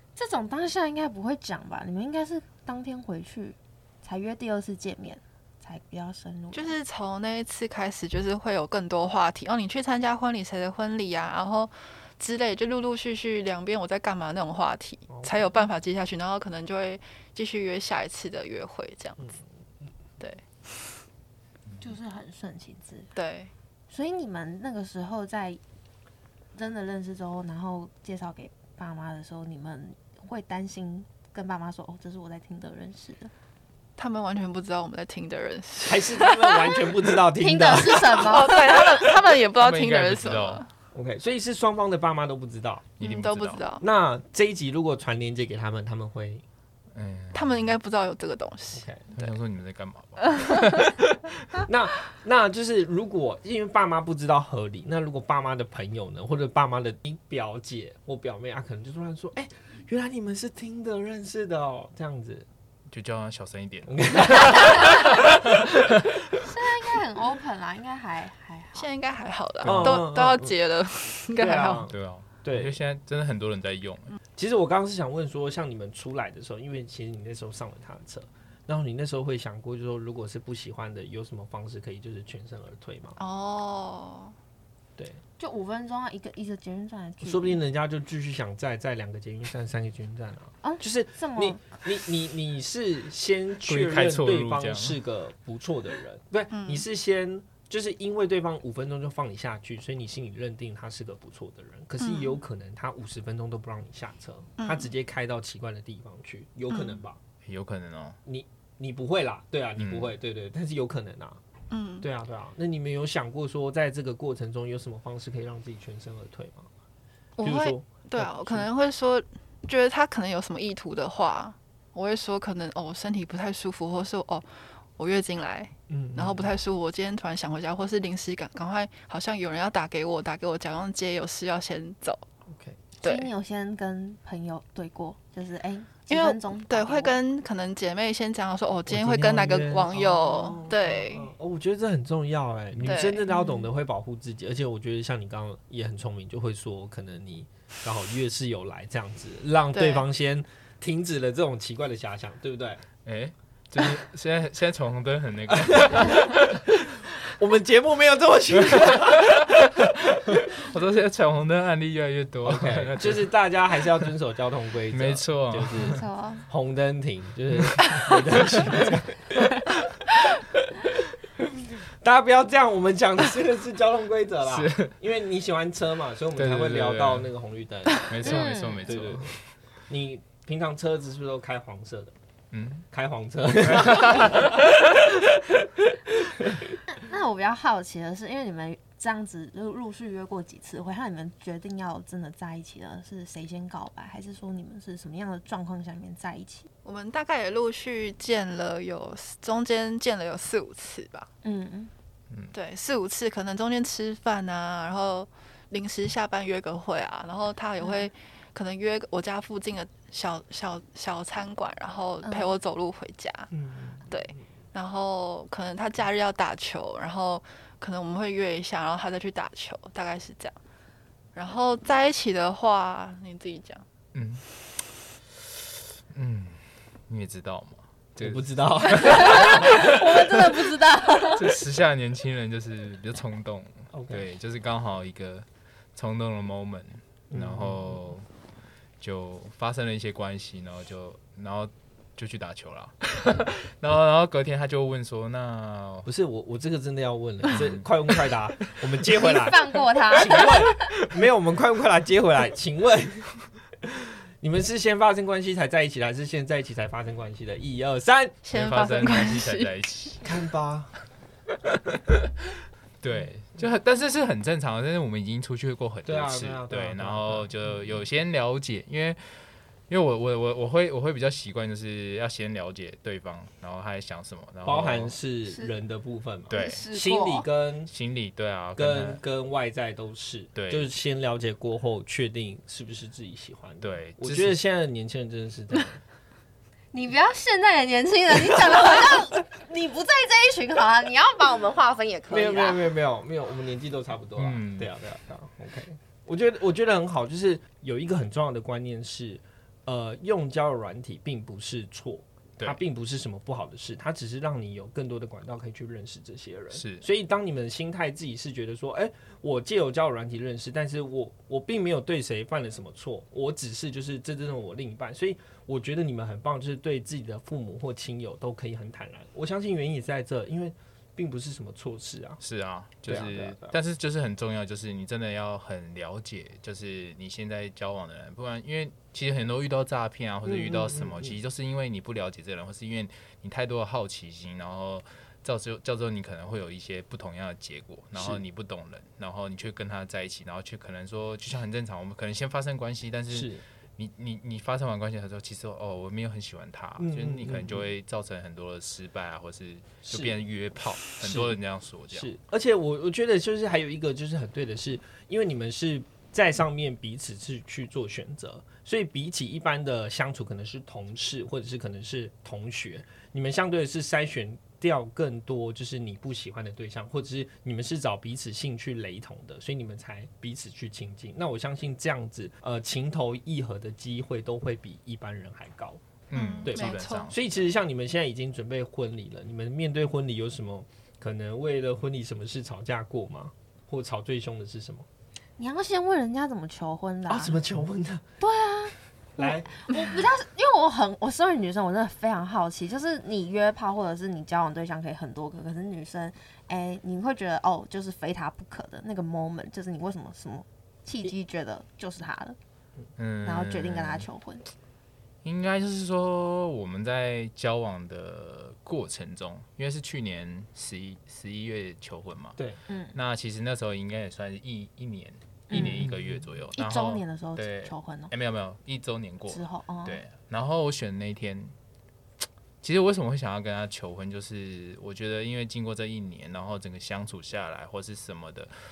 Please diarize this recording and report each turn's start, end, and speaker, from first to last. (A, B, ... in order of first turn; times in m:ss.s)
0:00.2-0:06.8 A
0:06.5-0:19.2 B
0:15.1-0:15.5 C
0:20.2-0:21.0 B
0:21.8-0:23.1 A
0:23.2-0:23.5 B
0:23.9-0:25.6 A
0:26.6-0:33.3 A
0:34.0-0:36.9 B
0:35.8-0:39.1 C
0:37.4-0:38.8 A
0:38.1-0:40.7 B
0:39.6-0:40.6 D
0:40.9-0:42.9 C
0:43.0-0:43.6 D
0:43.0-0:43.8 B
0:43.8-0:46.4 C
0:46.9-0:47.7 D
0:47.3-0:48.9 B
0:48.7-0:49.3 C
0:49.1-0:51.6 D
0:51.6-1:02.5 C
1:02.9-1:05.9 D
1:03.9-1:05.8 C
1:06.4-1:08.9 A
1:08.7-1:11.9 B
1:09.6-1:10.0 D
1:09.6-1:10.6 C
1:11.4-1:12.8 C
1:11.9-1:14.2 D
1:14.4-1:23.2 C
1:23.2-1:24.4 B
1:25.4-1:27.6 A
1:27.2-1:47.2 C
1:30.6-1:31.6 A
1:33.6-1:35.0 D
1:36.5-1:36.8 B
1:42.0-1:42.4 B
1:44.6-1:44.9 B
1:46.7-1:47.0 B
1:47.4-1:48.2 D
1:48.3-1:51.4 C
1:49.8-1:50.1 D
1:51.7-1:52.0 B
1:52.0-1:56.7 C
1:57.4-2:04.4 B
1:57.4-1:58.7 C
2:05.0-2:12.2 B
2:05.9-2:06.5 C
2:12.5-2:12.8 C
2:13.0-2:13.3 B
2:13.0-2:17.1 A
2:16.1-2:21.3 B
2:18.9-2:32.8 C
2:22.8-2:23.3 B
2:23.3-2:23.7 A
2:29.7-2:30.0 B
2:33.0-2:36.6 D
2:35.5-2:39.7 C
2:40.5-2:43.3 D
2:42.4-2:49.7 C
2:44.9-2:46.0 D
2:45.7-2:46.4 A
2:48.5-2:48.9 D
2:50.5-3:02.2 C
2:54.4-2:54.9 D
2:56.4-2:57.3 D
2:58.1-2:59.4 D
2:58.2-2:59.0 A
3:02.5-3:02.8 D
3:02.9-3:06.8 C
3:03.7-3:04.7 D
3:06.9-3:16.7 A
3:16.8-3:21.3 B
3:21.4-3:21.9 A
3:22.5-3:33.5 B
3:27.8-3:28.1 A
3:32.2-3:32.5 A
3:33.5-3:34.5 C
3:34.1-3:40.6 B
3:41.4-3:43.8 B
3:44.1-3:44.4 D
3:46.1-3:49.9 D
3:48.2-3:49.9 C
3:48.9-3:51.6 A
3:51.3-3:58.3 D
3:53.9-3:54.3 C
3:57.3-3:58.0 C
3:59.0-4:06.1 D
4:06.0-4:18.4 C
4:07.5-4:07.9 D
4:09.1-4:10.8 A
4:18.4-4:19.8 B
4:18.5-4:20.3 D
4:20.2-4:20.9 C
4:23.0-4:29.2 D
4:26.0-4:27.6 C
4:29.9-4:35.2 D
4:34.6-4:37.9 C
4:36.5-4:37.5 A
4:36.5-4:36.9 D
4:37.9-4:39.2 D
4:38.8-4:46.0 C
4:40.6-4:40.9 D
4:43.8-4:44.6 D
4:46.9-4:52.8 A
4:52.3-5:22.4 C
4:54.4-4:54.9 D
5:06.7-5:07.0 D
5:22.4-5:52.3 D
5:23.1-5:23.8 C
5:30.5-5:31.4 C
5:38.2-5:38.4 C
5:43.3-5:43.6 C
5:47.0-5:47.9 C
5:50.0-5:50.3 C
5:51.2-5:51.6 C
5:52.1-6:16.0 C
6:16.3-6:17.4 D
6:16.3-6:17.3 B
6:16.7-6:25.1 C
6:25.6-6:27.6 A
6:27.3-6:28.2 C
6:28.4-6:42.6 A
6:29.4-6:29.7 C
6:43.2-6:44.3 D
6:43.4-6:44.7 A
6:45.4-6:52.6 D
6:52.9-6:53.2 A
6:53.1-7:01.7 D
6:55.7-6:56.1 A
6:55.7-6:56.4 C
6:56.8-6:58.3 A
6:59.5-7:00.2 A
7:02.8-7:08.7 D